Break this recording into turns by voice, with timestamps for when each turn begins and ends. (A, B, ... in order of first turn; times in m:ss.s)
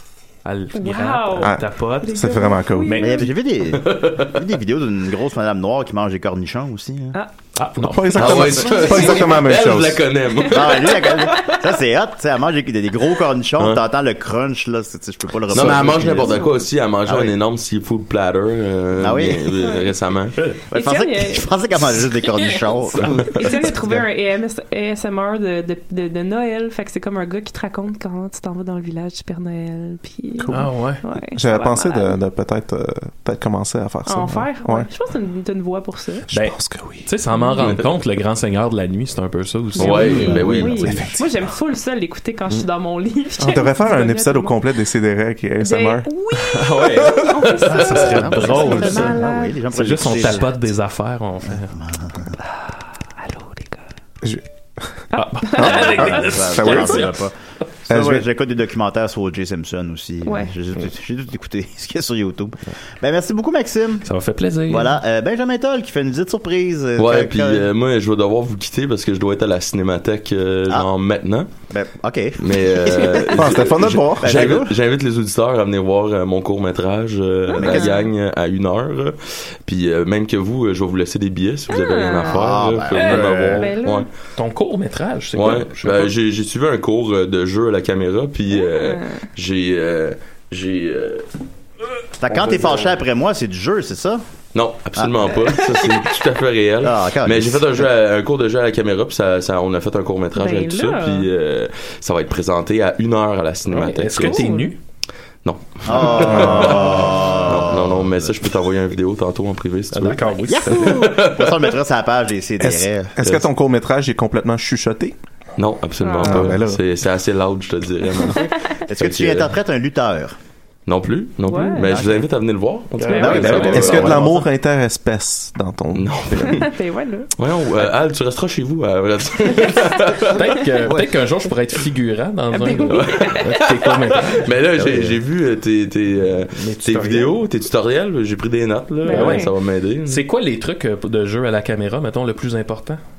0:00.4-0:02.2 A
0:00.8-0:03.3 B
0:01.4-0:03.2 C
0:02.8-0:03.3 A
0:03.0-0:07.2 D
0:03.7-0:04.4 E
0:07.6-0:08.6 A
0:07.8-0:10.0 C
0:08.2-0:11.1 E
0:08.3-0:09.4 B
0:10.3-0:11.5 B
0:10.5-0:16.5 D
0:15.5-0:20.4 E
0:17.1-0:17.3 D
0:19.0-0:19.5 D
0:19.6-0:19.9 B
0:20.7-0:23.4 D
0:20.7-0:21.5 B
0:22.3-0:23.7 A
0:23.3-0:32.2 B
0:30.4-0:30.7 C
0:30.5-0:31.0 A
0:31.3-0:34.9 C
0:34.1-0:36.3 B
0:36.3-0:37.1 C
0:36.3-0:41.3 A
0:37.3-0:37.6 B
0:37.6-0:37.9 E
0:39.8-0:44.6 B
0:39.8-0:41.1 E
0:43.4-0:46.1 C
0:45.6-0:49.6 B
0:46.5-0:51.7 A
0:47.7-0:50.7 D
0:51.7-0:52.4 D
0:53.2-0:53.8 B
0:54.2-0:57.1 C
0:55.1-0:56.2 B
0:55.1-0:57.2 A
0:55.7-0:57.4 D
0:57.9-1:04.0 D
0:57.9-0:58.3 C
1:00.2-1:00.5 B
1:04.0-1:05.0 A
1:04.7-1:07.7 D
1:07.0-1:11.5 E
1:11.7-1:14.7 D
1:12.4-1:24.1 E
1:13.4-1:14.3 C
1:17.5-1:18.1 B
1:17.6-1:18.0 D
1:21.7-1:24.1 B
1:22.3-1:23.7 D
1:24.4-1:26.2 A
1:25.3-1:31.3 E
1:28.6-1:29.2 B
1:32.2-1:34.2 D
1:32.3-1:33.0 E
1:34.6-1:44.5 E
1:35.0-1:35.7 D
1:36.8-1:37.9 D
1:40.4-1:41.3 B
1:43.7-1:44.8 A
1:43.8-1:44.7 B
1:45.4-1:51.8 E
1:45.9-1:48.5 D
1:46.4-1:46.8 C
1:49.9-1:51.1 A
1:50.5-1:53.4 D
1:52.6-1:55.2 C
1:55.6-1:59.5 E
1:56.0-1:56.5 B
1:56.2-1:56.8 C
1:58.2-1:58.8 B
1:58.3-2:00.4 D
2:00.9-2:04.3 E
2:01.5-2:02.0 B
2:01.8-2:02.2 A
2:03.0-2:04.3 A
2:03.2-2:04.4 D
2:03.5-2:06.6 C
2:06.0-2:06.7 E
2:06.4-2:07.3 B
2:07.4-2:10.4 E
2:10.3-2:14.4 A
2:10.4-2:11.1 D
2:12.5-2:13.4 B
2:12.9-2:20.2 E
2:14.8-2:15.2 D
2:16.6-2:17.4 A
2:19.0-2:19.5 B
2:19.1-2:19.5 A
2:20.0-2:23.0 A